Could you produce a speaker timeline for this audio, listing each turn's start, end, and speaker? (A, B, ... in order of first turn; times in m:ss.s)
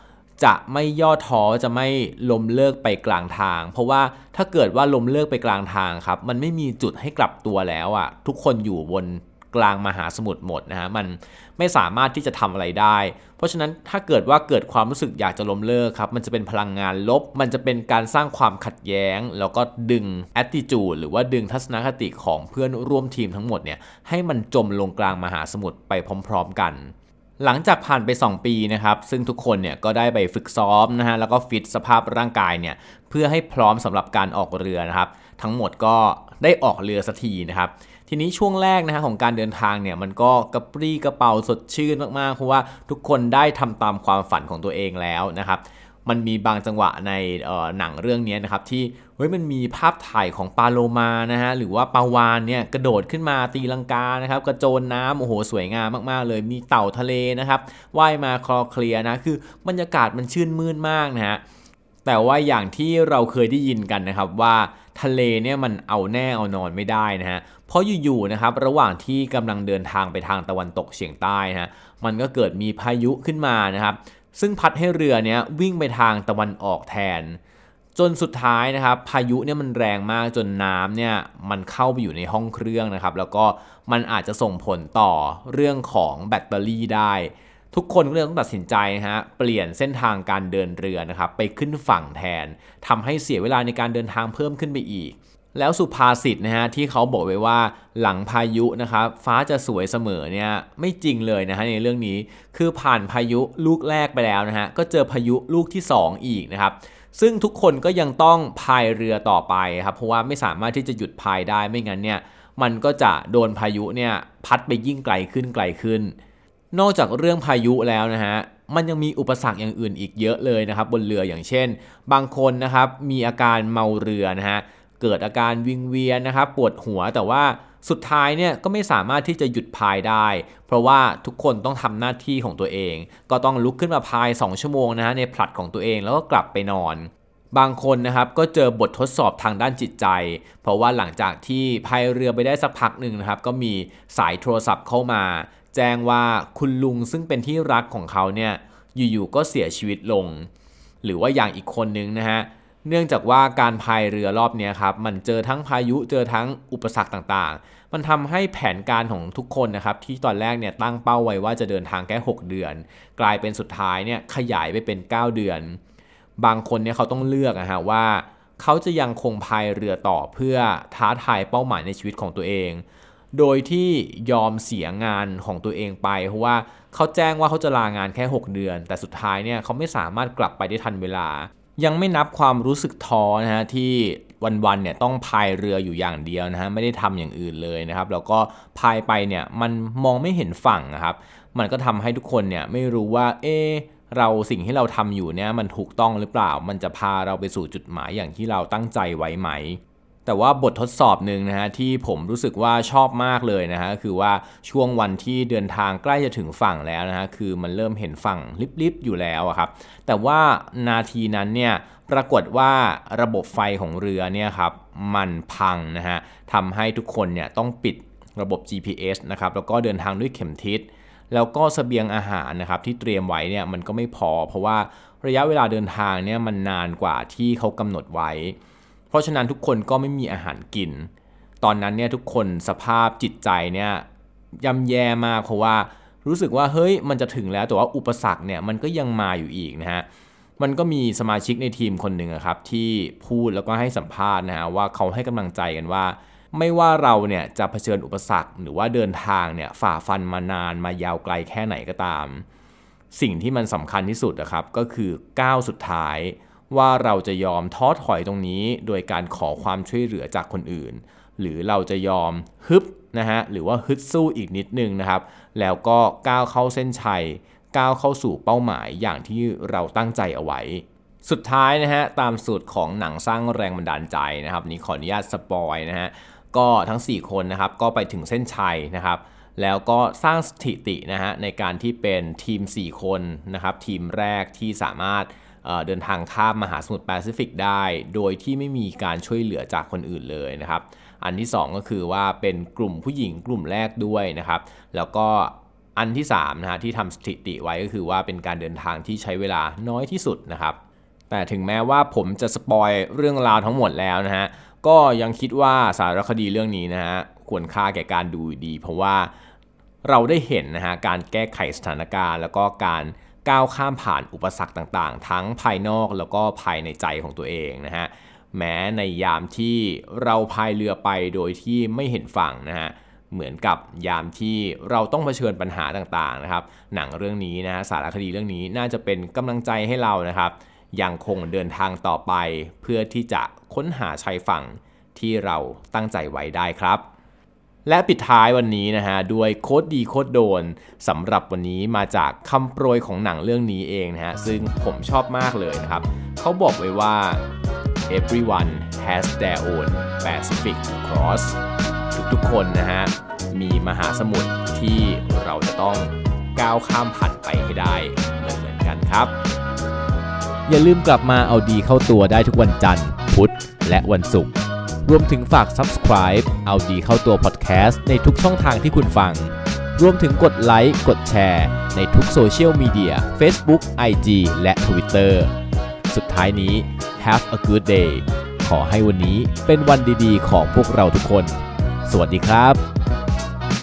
0:00.4-1:01.4 A
1:02.0-1:17.4 A
1:17.9-1:56.2 A
1:56.7-2:30.5 A
2:31.0-2:45.8 A
2:46.4-3:48.6 A
3:49.1-3:51.1 A
3:51.6-3:54.0 A
3:54.6-4:00.0 A
4:00.6-4:12.4 A
4:13.1-5:00.8 A
5:01.3-5:09.3 A
5:10.0-5:37.0 A
5:37.8-5:47.4 A
5:48.1-5:51.6 A
5:52.1-5:59.3 A
6:00.7-6:04.5 A
6:05.0-6:15.5 A
6:16.1-6:22.8 A